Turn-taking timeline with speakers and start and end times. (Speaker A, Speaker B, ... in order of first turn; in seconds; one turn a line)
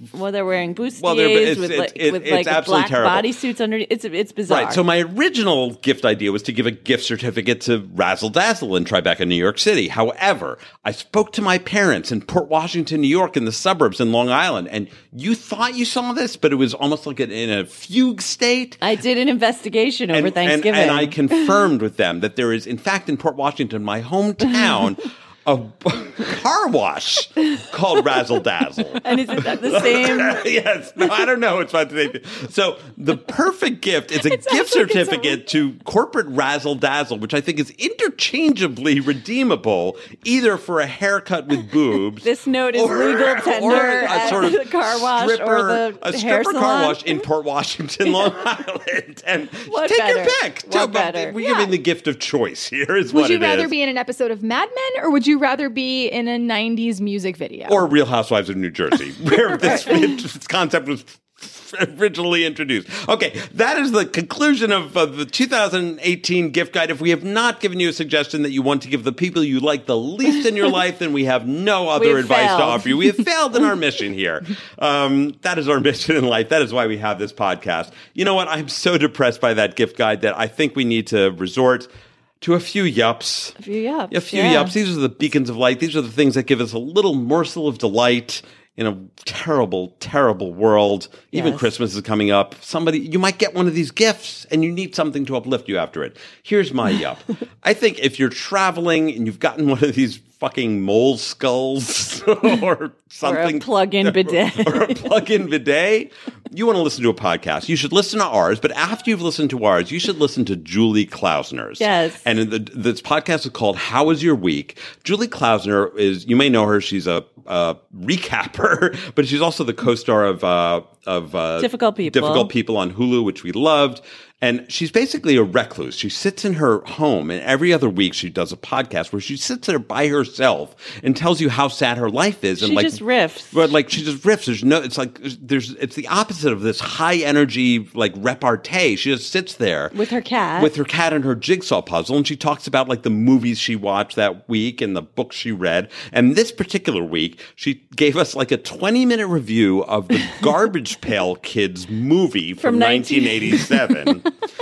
Speaker A: 0.1-4.8
Speaker B: 1.0-3.3
Speaker B: 4.5-18.8
Speaker A: 18.8-21.4
Speaker B: 20.1-53.7
Speaker A: 29.0-30.4
Speaker C: 34.5-35.2
Speaker A: 42.2-47.2
Speaker A: 49.7-51.4
Speaker C: 51.4-51.7
Speaker C: 53.1-57.8
Speaker B: 57.7-81.9
Speaker A: 59.6-60.0
Speaker A: 72.0-73.1
Speaker B: 82.4-83.6
Speaker A: 83.6-84.8
Speaker B: 84.1-133.0
Speaker A: 91.3-91.7
Speaker A: 103.2-105.0
Speaker A: 111.8-112.2
Speaker A: 121.6-122.5
Speaker A: 132.6-133.7
Speaker B: 133.5-139.9
Speaker A: 139.9-140.7
Speaker B: 140.6-154.3
Speaker A: 152.6-153.7